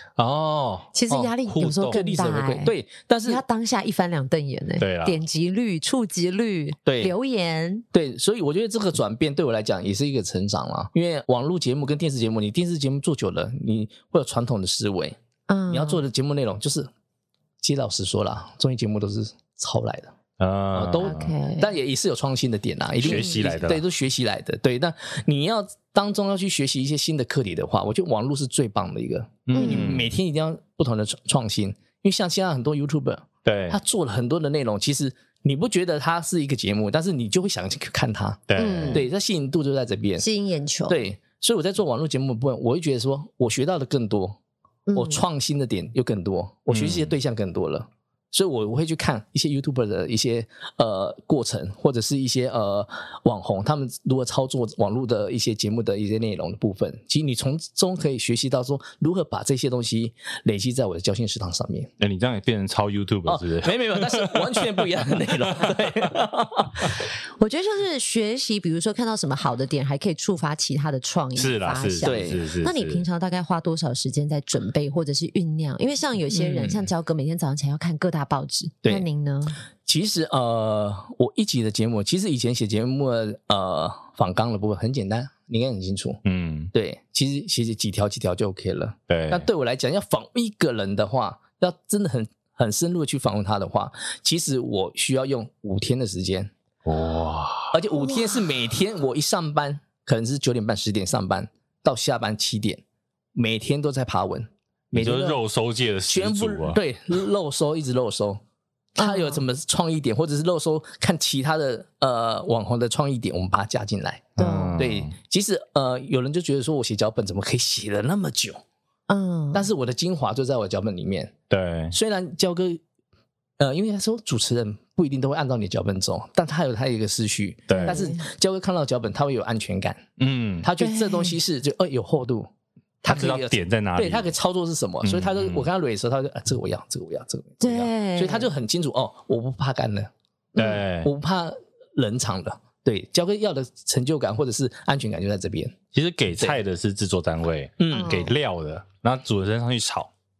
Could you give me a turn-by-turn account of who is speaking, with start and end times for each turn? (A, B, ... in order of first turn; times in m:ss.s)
0:00.2-0:02.0 A
0:00.9-0:02.7 B
0:01.8-0:03.4 C
0:03.2-0:07.8 B
0:04.8-0:05.2 A
0:06.8-0:07.1 C
0:07.9-0:15.2 C
0:15.5-0:16.0 B
0:15.7-0:16.9 C
0:17.6-0:20.1 C
0:20.4-0:21.3 A
0:20.7-0:40.2 C
0:21.0-0:21.7 B
0:23.0-0:23.8 A
0:29.5-0:30.1 A
0:29.5-0:29.9 B
0:33.4-0:33.8 A
0:38.5-0:39.0 A
0:38.6-0:39.0 B
0:40.2-0:41.0 B
0:40.9-0:44.4 C
0:44.9-0:45.2 B
0:44.9-1:01.9 C
0:46.7-0:47.1 A
1:02.0-1:04.6 A
1:03.2-1:07.0 C
1:05.4-1:05.7 A
1:07.4-1:19.6 B
1:11.4-1:13.0 A
1:12.0-1:12.4 C
1:16.3-1:16.8 C
1:19.8-1:26.2 C
1:26.2-1:26.7 A
1:26.7-1:36.5 C
1:29.1-1:29.5 A
1:36.8-1:37.8 A
1:37.7-1:42.8 C
1:43.3-1:45.4 C
1:44.9-1:46.8 A
1:46.1-1:48.4 C
1:49.0-1:58.6 C
1:49.0-1:49.4 B
1:54.4-1:54.8 B
1:54.4-1:55.1 A
1:59.1-1:59.7 B
1:59.5-2:01.3 C
2:01.5-2:01.9 A
2:01.9-2:02.8 C
2:03.6-2:10.0 C
2:07.7-2:08.0 A
2:07.7-2:08.2 B
2:10.2-2:10.7 A
2:10.6-2:12.5 C
2:10.8-2:11.4 B
2:13.0-2:25.8 C
2:13.0-2:14.3 A
2:15.0-2:15.7 A
2:17.6-2:18.5 B
2:20.6-2:21.1 A
2:25.9-2:30.1 A
2:27.8-2:28.3 C
2:27.9-2:28.3 B